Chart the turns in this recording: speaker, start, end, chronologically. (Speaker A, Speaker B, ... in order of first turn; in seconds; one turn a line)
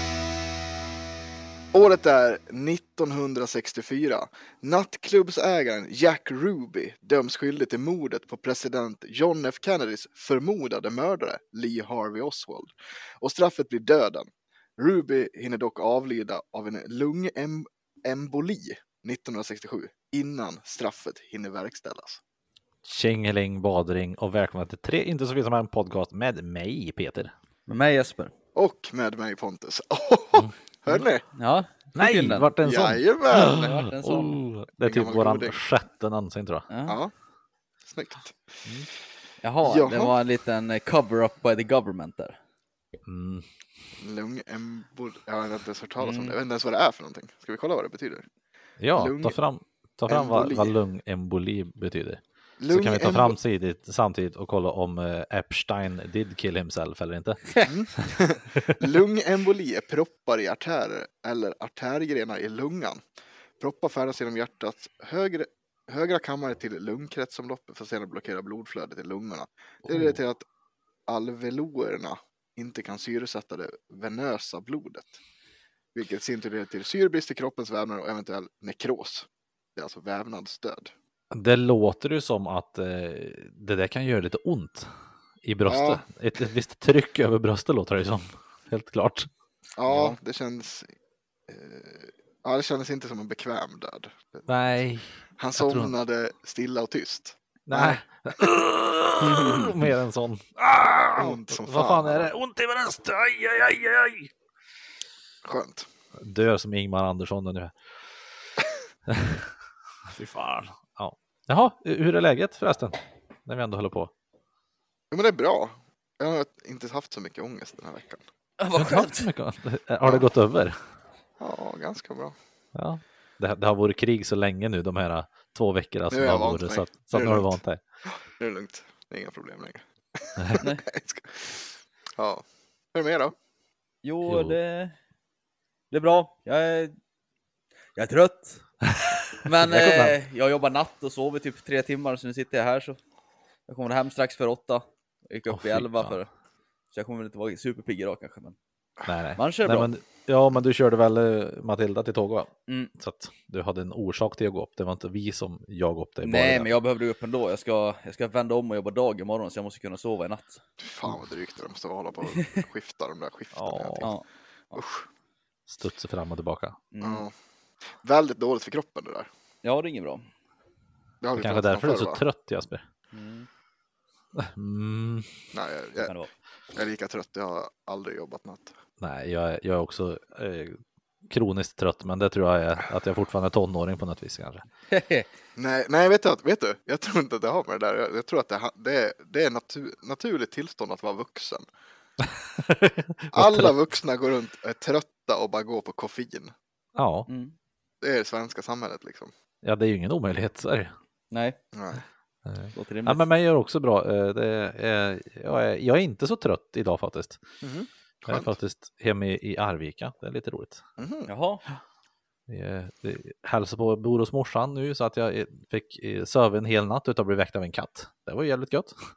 Speaker A: 1.7-22.2
Speaker B: 22.8-27.3
Speaker C: 27.7-28.3
Speaker A: 28.5-31.2
Speaker C: 31.3-32.5
Speaker B: 32.0-36.7
Speaker A: 32.6-33.7
Speaker C: 33.3-34.4
Speaker A: 34.8-35.6
Speaker C: 36.7-37.0
Speaker A: 36.9-37.1
Speaker A: 37.8-38.4
Speaker C: 39.4-42.4
Speaker A: 39.6-40.1
Speaker B: 43.0-43.5
Speaker A: 44.0-48.2
Speaker C: 46.0-46.4
Speaker B: 48.8-58.8
Speaker A: 49.0-49.4
Speaker A: 50.1-50.8
Speaker A: 52.6-53.4
Speaker A: 57.6-63.0
Speaker A: 63.6-70.5
Speaker B: 69.9-70.2
Speaker A: 71.1-75.2
Speaker A: 75.9-80.9
Speaker B: 81.3-84.9
Speaker B: 85.4-89.3
Speaker A: 85.7-86.0
Speaker A: 89.8-90.9
Speaker B: 89.9-90.1
Speaker A: 91.5-94.5
Speaker B: 94.5-96.0
Speaker A: 95.4-98.0
Speaker B: 97.7-104.3
Speaker C: 99.2-99.7
Speaker A: 101.2-102.3
Speaker A: 105.4-105.9
Speaker B: 106.2-107.8
Speaker B: 109.1-109.5
Speaker B: 110.1-114.1
Speaker A: 115.1-118.2
Speaker C: 118.6-119.3
Speaker B: 118.8-120.8
Speaker A: 121.4-122.3
Speaker B: 122.8-127.8
Speaker A: 126.1-133.3
Speaker C: 134.0-134.9
Speaker B: 134.3-134.6
Speaker C: 135.9-136.9
Speaker C: 137.9-138.7
Speaker B: 138.9-140.2
Speaker C: 139.4-143.0
Speaker C: 143.7-146.3
Speaker B: 145.5-146.2
Speaker C: 146.9-148.6
Speaker B: 149.1-156.7
Speaker C: 149.4-149.9
Speaker C: 156.2-160.6
Speaker A: 160.8-164.1
Speaker B: 163.5-164.1
Speaker C: 164.0-164.8
Speaker A: 164.7-165.1
Speaker B: 165.7-166.8
Speaker C: 166.9-167.2
Speaker A: 167.0-167.3
Speaker A: 167.9-169.3
Speaker C: 169.6-170.3
Speaker A: 171.2-172.2
Speaker B: 171.4-172.8
Speaker C: 173.1-173.5
Speaker B: 174.3-175.3
Speaker A: 175.5-176.1
Speaker C: 176.0-176.3
Speaker A: 176.7-178.8
Speaker B: 179.0-184.7
Speaker C: 184.9-185.3
Speaker A: 185.6-191.7
Speaker B: 192.2-193.7
Speaker A: 193.3-196.5
Speaker B: 196.9-197.3
Speaker C: 197.3-197.5
Speaker A: 198.0-199.3
Speaker B: 199.6-200.9
Speaker C: 201.3-201.6
Speaker A: 201.7-202.0
Speaker B: 202.4-207.4
Speaker C: 202.8-203.2
Speaker A: 207.6-208.5
Speaker B: 208.3-210.8
Speaker A: 211.0-211.3
Speaker C: 211.3-211.6
Speaker B: 212.5-218.9